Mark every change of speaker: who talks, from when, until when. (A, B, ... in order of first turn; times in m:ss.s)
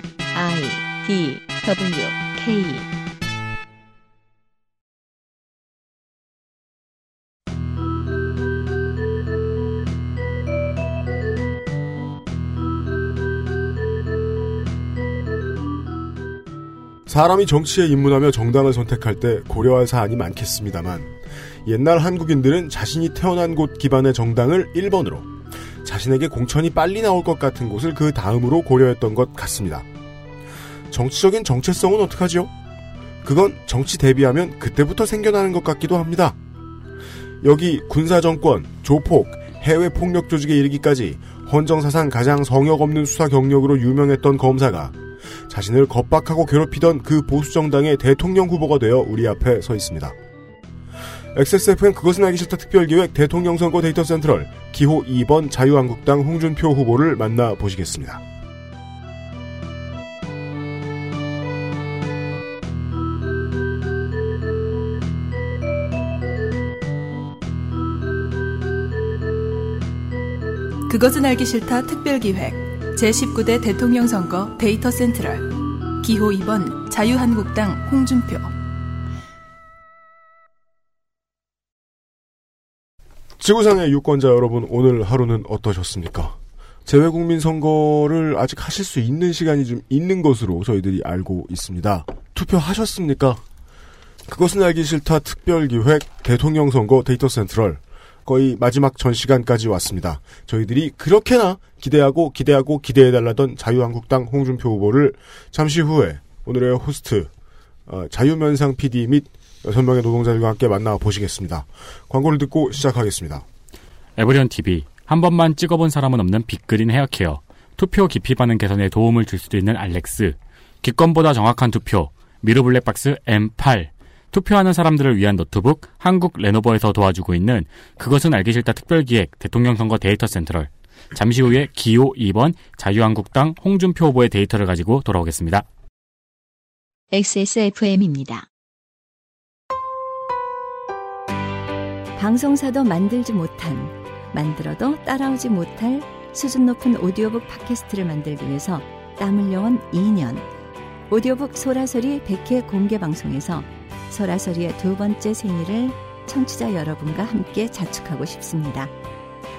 0:00.3-0:02.9 A
0:17.1-0:25.3 B
0:25.8-0:29.9 B
0:30.9-0:32.5 B
0:33.2-0:36.4 B
0:37.4-0:45.0 B
0:45.5-0:50.2 B
0:51.3-0:58.2 B
1:10.9-1:18.6 C
1:23.4-1:33.4 B
1:34.3-1:47.3 B
1:47.9-1:53.4 B
1:54.2-2:15.7 D
2:17.1-2:18.5 A
2:22.2-2:30.5 E
2:31.1-2:38.9 E